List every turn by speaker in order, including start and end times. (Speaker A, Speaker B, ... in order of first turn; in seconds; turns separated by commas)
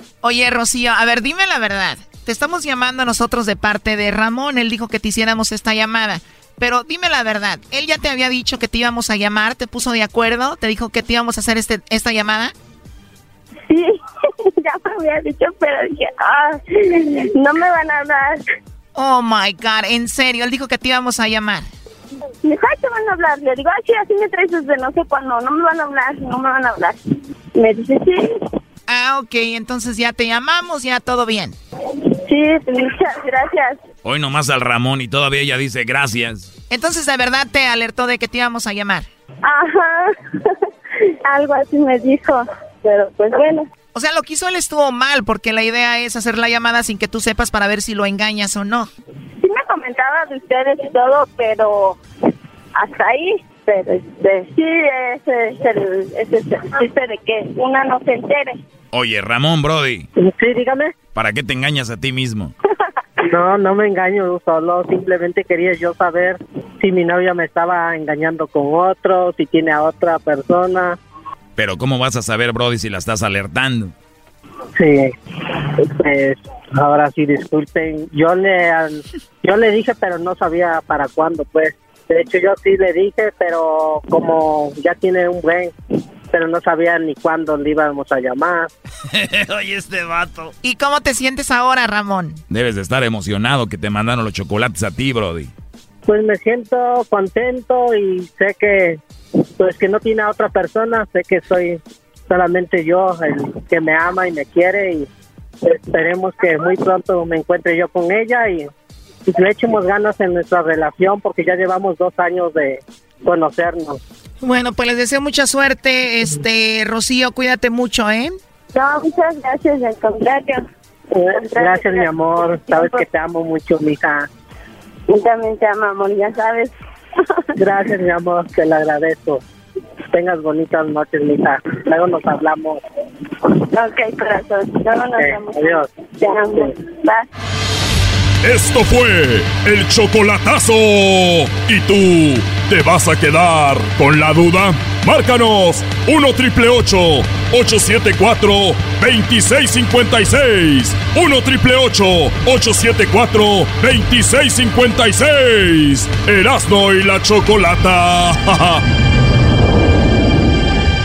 Speaker A: 0.2-12.5, Speaker B: 13.7-14.0, Speaker B: 14.6-18.4, Speaker A: 18.9-21.6, Speaker B: 22.4-27.0, Speaker B: 27.5-28.2, Speaker A: 28.9-31.5, Speaker B: 31.9-33.8, Speaker C: 34.0-36.5, Speaker A: 36.7-39.0, Speaker B: 39.4-40.6, Speaker B: 41.2-43.7, Speaker A: 43.9-48.9, Speaker B: 49.4-52.0, Speaker B: 52.7-58.6, Speaker C: 58.9-60.0, Speaker D: 60.2-60.9, Speaker C: 61.1-62.5, Speaker D: 63.2-71.0, Speaker C: 71.6-73.9, Speaker D: 74.8-75.1, Speaker D: 75.8-85.7, Speaker D: 86.3-88.7, Speaker C: 89.2-90.5, Speaker A: 90.6-92.4, Speaker C: 92.5-95.5, Speaker D: 96.0-99.0, Speaker D: 99.6-105.1, Speaker D: 105.6-108.7, Speaker D: 109.3-114.0, Speaker A: 114.4-118.3, Speaker B: 118.7-120.6, Speaker D: 121.1-124.3, Speaker B: 121.3-123.0, Speaker B: 125.1-127.4, Speaker D: 127.5-129.4, Speaker D: 130.1-132.8, Speaker B: 133.5-137.3, Speaker D: 135.2-135.9, Speaker E: 138.4-158.8